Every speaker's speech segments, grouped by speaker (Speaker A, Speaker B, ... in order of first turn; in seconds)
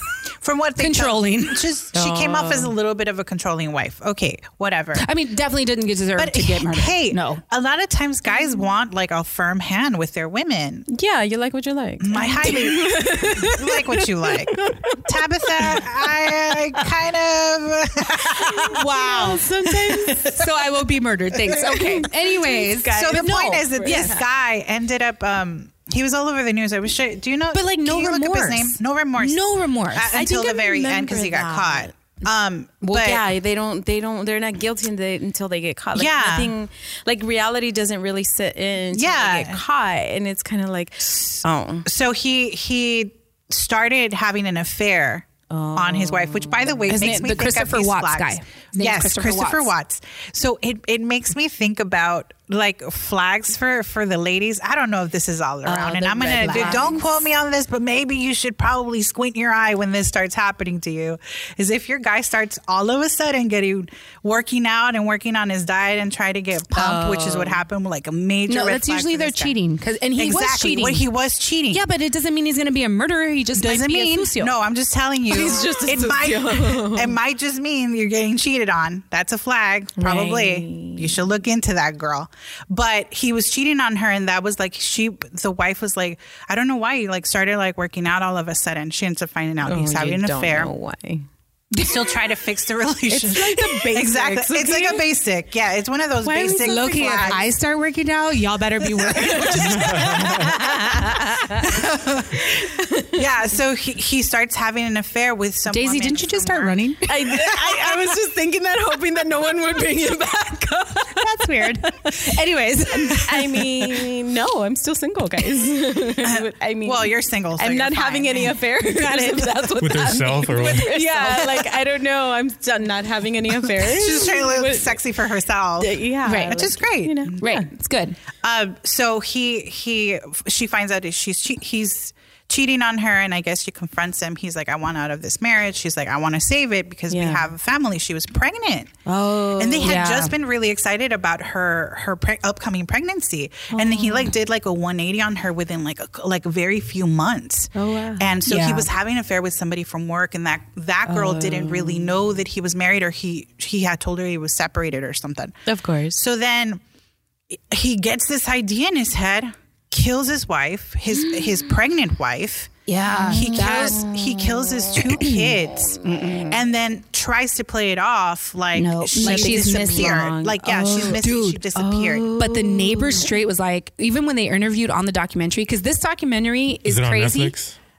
Speaker A: 0.4-5.1, 6.2-10.9, 12.0-20.3, 22.9-33.2, 36.0-36.6, 38.9-39.6, 41.9-69.6, 70.2-71.8, 73.6-90.7, 91.8-97.5, 98.8-100.9, 101.6-102.5, 103.1-108.2, 116.2-118.6, 123.8-127.4, 128.4-138.9, 139.6-155.6, 156.1-156.8, 157.5-162.7, 163.2-172.3
Speaker B: 0.8-1.7, 5.0-7.4, 12.2-12.6, 20.2-24.1, 27.5-30.1, 46.9-49.7, 56.3-57.0, 68.5-71.0, 71.7-74.5, 96.6-100.6, 105.7-107.2, 111.2-113.8, 119.0-121.7, 126.3-126.7, 127.4-128.2, 139.2-140.3, 148.5-148.9, 162.9-164.0, 166.0-166.5, 168.8-170.2, 170.9-171.6, 172.4-177.6
Speaker C: 1.9-2.7, 10.9-16.9, 18.2-20.4, 21.5-24.3, 30.1-31.9, 32.9-41.9, 45.5-47.2, 55.6-57.1, 66.7-67.6, 75.3-77.2, 80.0-81.2, 89.6-91.3, 93.1-95.0, 96.2-97.4, 99.3-101.8, 102.3-103.3, 107.1-112.3, 112.9-125.0, 125.8-127.7, 137.1-137.5, 139.1-140.0, 143.7-144.3, 147.8-148.3, 151.1-152.2, 155.7-156.2, 161.2-161.7, 163.1-166.6, 169.2-171.2, 171.7-173.3
Speaker D: 119.8-120.9, 176.8-177.8